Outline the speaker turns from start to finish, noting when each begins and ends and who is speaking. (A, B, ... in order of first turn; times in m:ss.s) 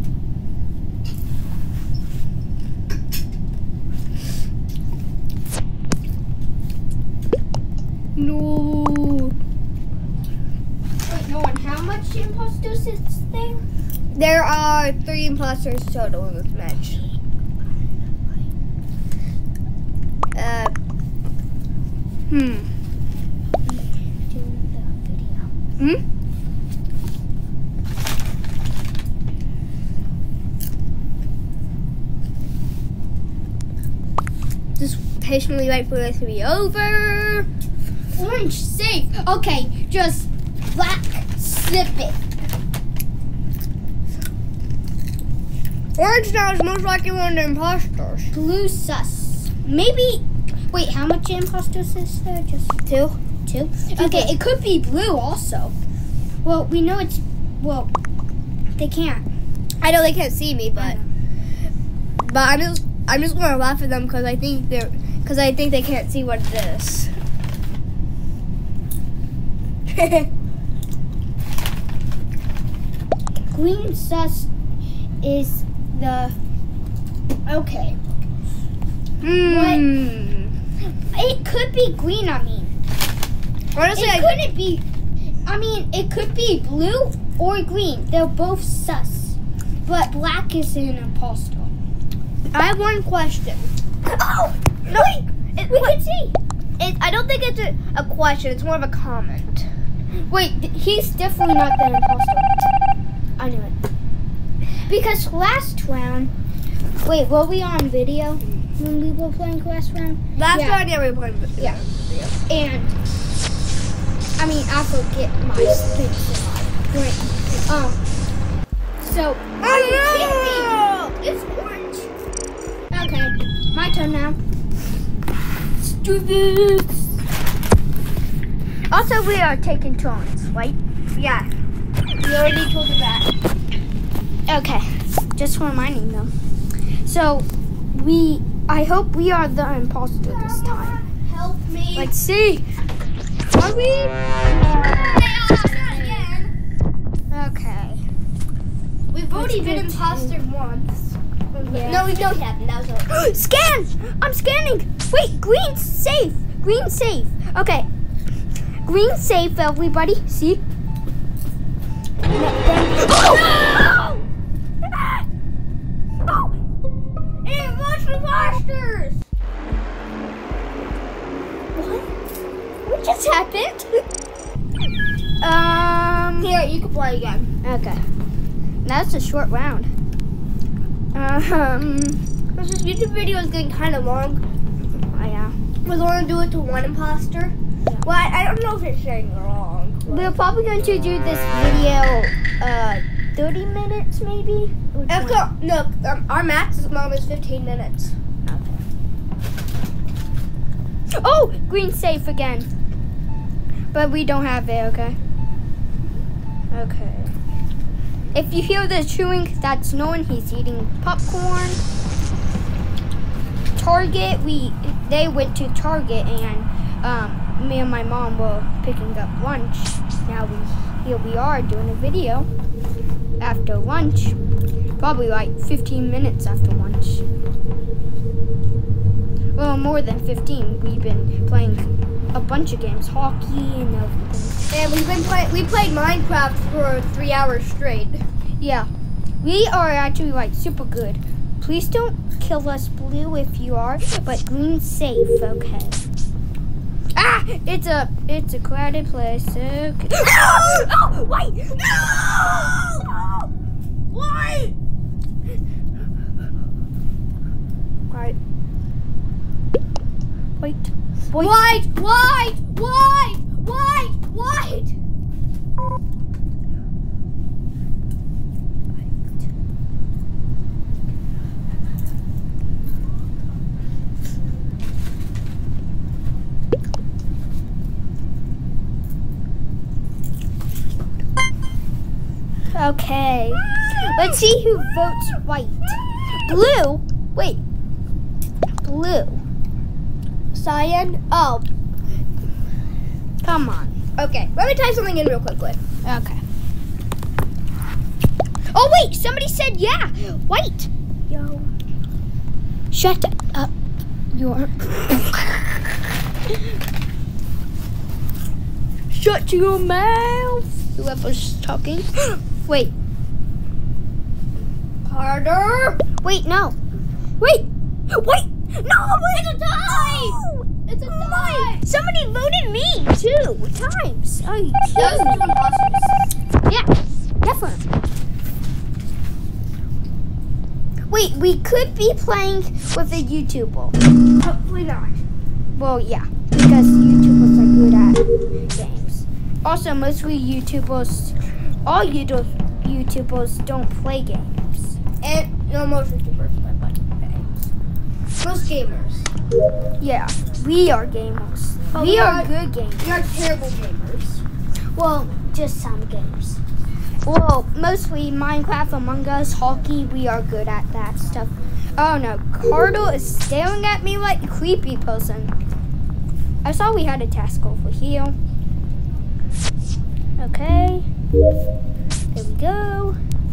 0:08.2-0:09.3 A
0:11.0-0:13.6 B
0:14.1-0:17.0 A
0:20.3-0:20.7 A
0:22.3-0:22.6 A
0:23.6-0:25.5 B
0:34.8-0:37.5 A
0:38.1-0:42.2 B
0:46.0-0:48.3 A
0:48.3-0:52.8 B
0:52.9-0:53.2 A
0:53.4-0:55.7 B
0:54.0-0:54.4 A
0:56.4-0:57.9 B
0:58.8-0:59.2 B
0:59.8-1:01.0 A
1:00.8-1:01.1 B
1:02.2-1:07.1 A
1:09.9-1:10.3 A
1:13.5-1:14.5 B
1:15.2-1:16.4 B
1:17.4-1:18.0 B
1:19.2-1:20.5 A
1:19.4-1:19.8 B
1:20.8-1:22.8 B
1:23.7-1:24.4 A
1:23.9-1:24.8 B
1:25.4-1:31.7 B
1:32.5-1:33.7 A
1:34.2-1:34.5 B
1:34.8-1:36.0 A
1:35.7-1:36.4 B
1:36.8-1:39.7 A
1:40.3-1:42.5 B
1:43.4-1:43.7 B
1:44.9-1:46.3 B
1:47.0-1:50.8 B
1:50.4-1:52.3 A
1:52.5-1:52.9 B
1:54.4-1:58.0 B
1:59.0-2:00.8 B
1:59.6-2:02.1 A
2:02.9-2:04.4 B
2:05.8-2:07.1 B
2:08.9-2:10.8 B
2:11.1-2:11.5 A
2:12.2-2:13.3 A
2:14.5-2:16.3 B
2:17.0-2:21.0 B
2:20.2-2:22.1 A
2:22.0-2:22.6 B
2:23.5-2:26.3 B
2:24.5-2:26.5 A
2:27.3-2:28.0 B
2:29.1-2:33.1 A
2:29.3-2:30.4 B
2:31.5-2:32.1 B
2:33.1-2:37.9 B
2:38.8-2:40.6 B
2:42.3-2:44.2 B
2:43.2-2:44.0 A
2:47.4-2:49.2 A
2:51.7-2:52.1 B
2:52.8-2:53.9 B
2:55.4-2:56.5 B
2:56.4-2:57.5 A
2:57.6-2:58.0 B
2:58.8-2:59.9 B
3:01.1-3:02.2 B
3:02.5-3:04.4 A
3:04.9-3:05.5 B
3:05.8-3:10.3 A
3:10.1-3:15.4 B
3:15.1-3:18.1 A
3:18.4-3:18.8 B
3:21.2-3:22.7 B
3:23.9-3:25.2 B
3:26.7-3:27.3 B
3:28.3-3:31.8 B
3:33.8-3:42.5 B
3:43.4-3:44.4 B
3:45.0-3:47.2 B
3:49.6-3:54.6 B
3:54.7-3:58.2 A
3:58.6-3:58.9 B
3:59.4-4:06.0 B
4:07.2-4:11.1 B
4:10.2-4:13.5 A
4:14.1-4:14.7 A
4:18.1-4:18.4 A
4:20.6-4:21.7 B
4:21.3-4:24.9 A
4:42.7-4:47.6 B
4:48.8-4:49.4 B
4:50.5-4:51.6 A
4:53.4-4:53.9 B
4:54.2-4:55.8 A
4:56.0-4:56.4 B
4:58.7-5:01.7 B
5:02.9-5:03.7 B
5:04.3-5:05.8 B
5:09.1-5:12.9 B
5:15.0-5:16.0 A
5:16.2-5:16.8 B
5:17.4-5:25.6 B
5:19.4-5:21.8 A
5:24.9-5:26.2 A
5:26.6-5:27.8 B
5:31.1-5:34.0 B
5:34.3-5:35.2 A
5:35.8-5:45.0 B
5:45.2-5:47.7 A
5:48.4-5:49.3 A
5:50.0-5:53.3 B
5:51.9-5:54.4 A
5:54.9-5:56.6 B
5:57.2-6:05.5 B
6:06.6-6:08.4 B
6:10.4-6:11.1 B
6:12.3-6:13.2 B